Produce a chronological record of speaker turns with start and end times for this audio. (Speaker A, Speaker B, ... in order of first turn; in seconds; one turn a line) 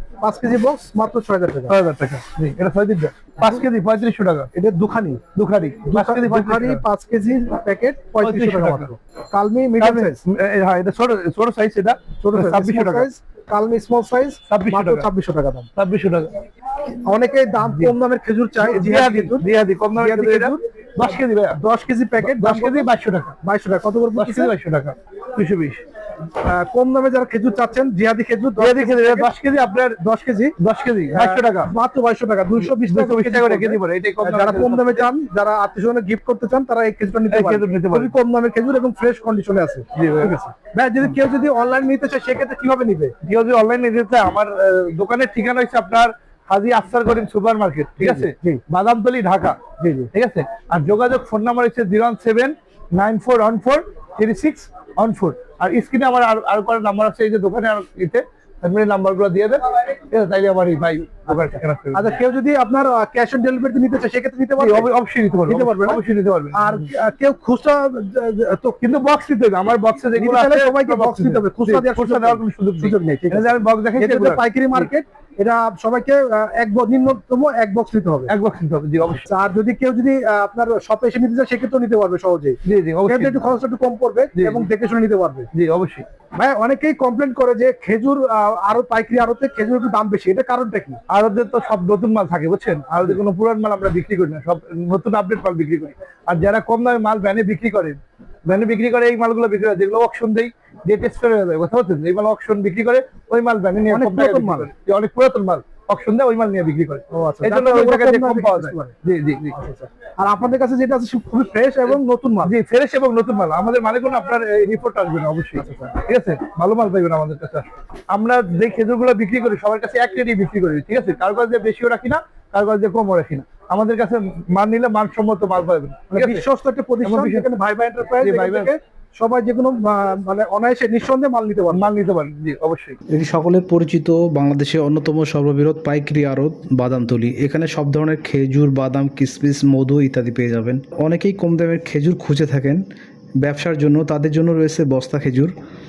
Speaker A: 0.2-1.8
Speaker B: 1.7-4.5
Speaker A: 4.5-5.2
Speaker B: 5.3-6.8
Speaker A: 5.9-10.2
Speaker B: 8.2-8.9
Speaker B: 9.8-13.1
Speaker A: 12.2-15.7
Speaker B: 14.5-15.1
Speaker B: 15.8-16.4
Speaker A: 16.9-19.5
Speaker B: 17.7-17.9
Speaker B: 18.6-21.6
Speaker A: 20.0-20.6
Speaker A: 21.6-22.9
Speaker B: 22.2-23.4
Speaker A: 23.4-24.5
Speaker B: 24.1-25.8
Speaker A: 26.4-29.3
Speaker B: 28.6-30.0
Speaker A: 30.0-30.5
Speaker B: 30.6-31.7
Speaker A: 31.1-43.1
Speaker B: 32.6-35.1
Speaker B: 37.3-38.1
Speaker B: 40.0-40.3
Speaker B: 43.2-49.6
Speaker A: 48.0-48.6
Speaker A: 49.8-50.1
Speaker B: 50.1-62.1
Speaker A: 61.3-64.9
Speaker B: 64.6-66.9
Speaker A: 65.5-68.8
Speaker B: 68.8-74.9
Speaker A: 70.2-78.3
Speaker B: 78.3-79.3
Speaker A: 79.2-85.5
Speaker B: 82.7-83.4
Speaker B: 84.4-84.7
Speaker B: 85.5-86.0
Speaker A: 86.4-91.0
Speaker B: 91.1-109.5
Speaker A: 103.9-104.7
Speaker A: 107.1-108.9
Speaker A: 109.5-112.5
Speaker B: 111.9-126.4
Speaker A: 115.6-115.9
Speaker A: 126.1-131.9
Speaker B: 127.0-127.5
Speaker B: 128.2-128.7
Speaker B: 131.7-133.0
Speaker C: 133.1-142.8
Speaker C: 143.4-145.5